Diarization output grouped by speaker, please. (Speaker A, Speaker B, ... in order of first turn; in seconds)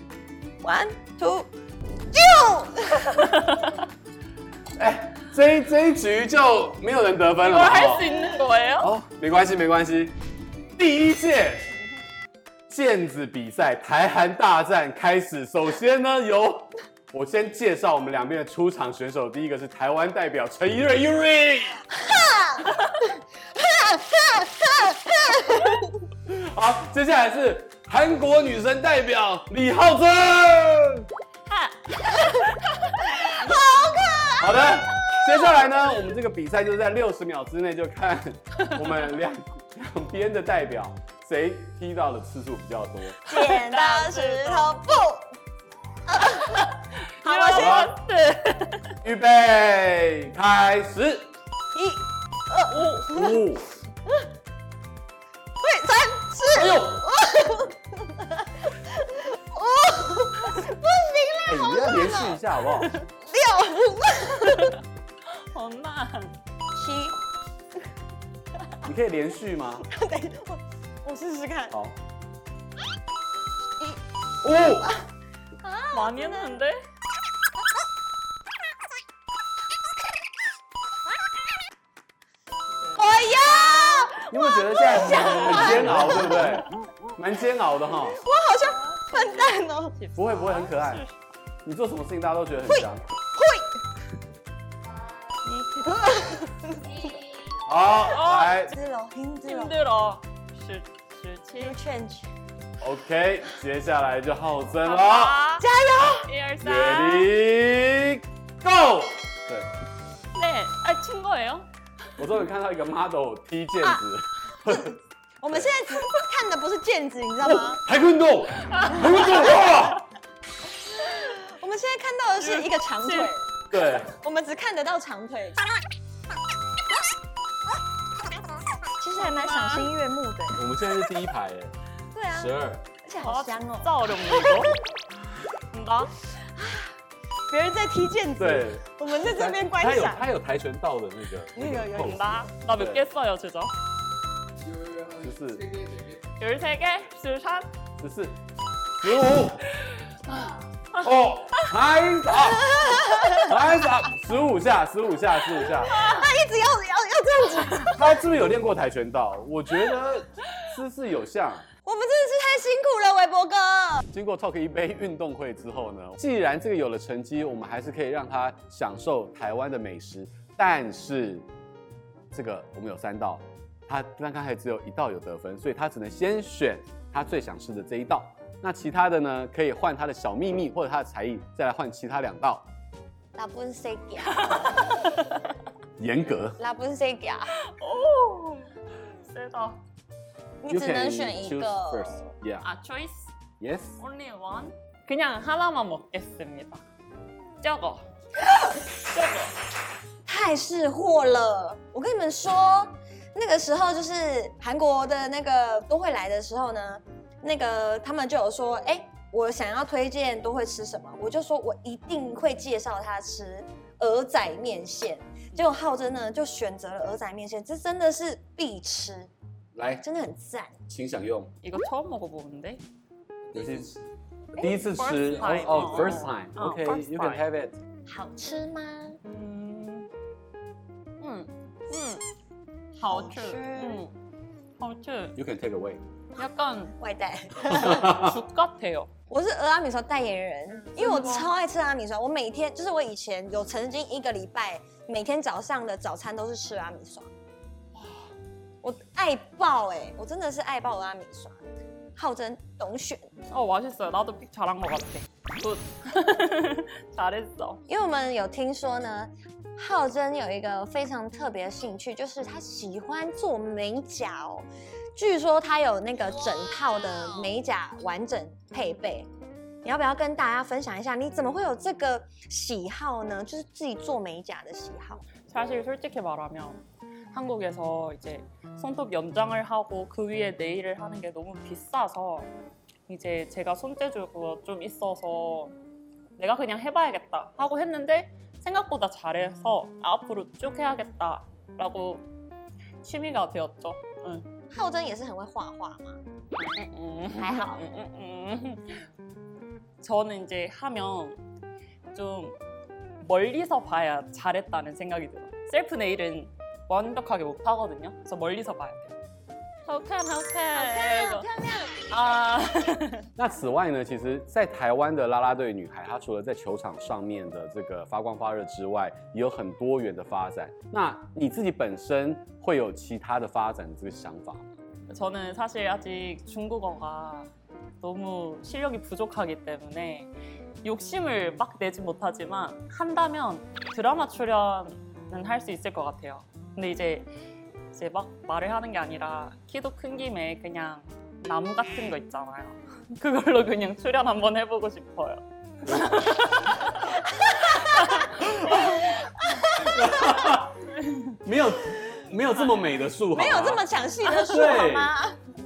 Speaker A: 0.6-1.5, 2.1-3.5, 22.0-26.0, 33.2-35.3, 43.3-45.3, 46.1-46.7, 47.2-48.0, 51.7-53.4, 55.6-64.8, 66.8-67.2, 69.9-71.8, 75.6-76.6, 83.0-86.5, 88.2-90.0, 92.7-93.8, 95.5-97.1, 98.7-99.8, 101.6-102.3, 105.6-106.3, 114.7-117.8, 119.1-119.6, 121.0-125.6, 129.0-130.7, 132.1-134.6, 136.6-136.9, 137.5-140.2, 141.6-142.4, 152.4-153.6, 155.6-158.2, 161.8-164.1, 183.3-185.0, 186.6-187.5, 190.6-192.2, 200.3-219.3, 220.0-220.8, 228.1-229.2, 233.0-234.0, 237.0-238.1, 239.3-247.3, 248.8-251.6, 252.2-253.3, 257.9-269.3, 269.8-275.3, 294.7-296.2, 297.3-297.8, 310.7-312.1, 347.0-350.6, 353.3-355.4
Speaker B: 3.2-3.8, 7.4-8.9, 31.5-33.6, 43.2-44.9, 47.2-48.9, 52.7-53.1, 64.4-64.8, 65.4-66.3, 75.9-76.8, 82.8-84.2, 85.2-85.7, 88.8-91.2, 98.1-98.7, 99.5-101.8, 104.8-105.7, 106.2-107.3, 110.3-111.7, 122.4-123.3, 129.2-129.9, 133.2-134.8, 135.7-136.2, 142.0-143.7, 146.4-147.7, 184.3-185.4, 187.6-189.8, 192.6-193.3, 194.0-196.8, 197.6-198.1, 199.0-199.6, 221.6-222.8, 224.6-227.4, 229.2-230.1, 231.2-232.2, 233.0-234.1, 234.8-235.4, 236.4-236.9, 237.7-239.1, 240.8-241.5, 253.5-257.8, 275.5-282.5, 283.1-285.8, 286.4-292.3, 293.0-294.5, 296.6-299.1, 300.0-301.4, 302.1-302.6, 303.2-309.1, 309.9-313.3, 325.1-327.5, 328.0-330.3, 330.8-337.3, 337.9-349.2, 351.0-351.3
Speaker C: 4.8-8.1, 8.8-10.2, 10.8-11.8, 12.7-21.9, 26.3-31.1, 34.4-43.2, 47.5-47.9, 49.0-51.3, 53.0-53.7, 56.5-57.1, 61.5-62.9, 68.8-69.9, 71.7-72.0, 74.4-74.9, 84.3-88.2, 90.2-91.0, 91.7-93.1, 97.7-98.8, 102.8-105.5, 106.6-109.7, 112.2-115.0, 115.5-115.8, 117.4-120.0, 123.7-124.2, 130.6-131.7, 132.3-132.9, 138.4-143.0, 145.0-145.9, 148.0-148.4, 149.0-149.7, 150.9-156.0, 157.9-161.7, 164.1-171.5, 172.3-182.7, 186.0-186.6, 190.7-192.7, 193.6-194.0, 219.8-220.1, 220.9-221.5, 223.5-224.0, 224.6-227.8, 235.4-236.0, 237.8-238.3, 313.4-324.7, 349.8-350.8, 351.4-355.1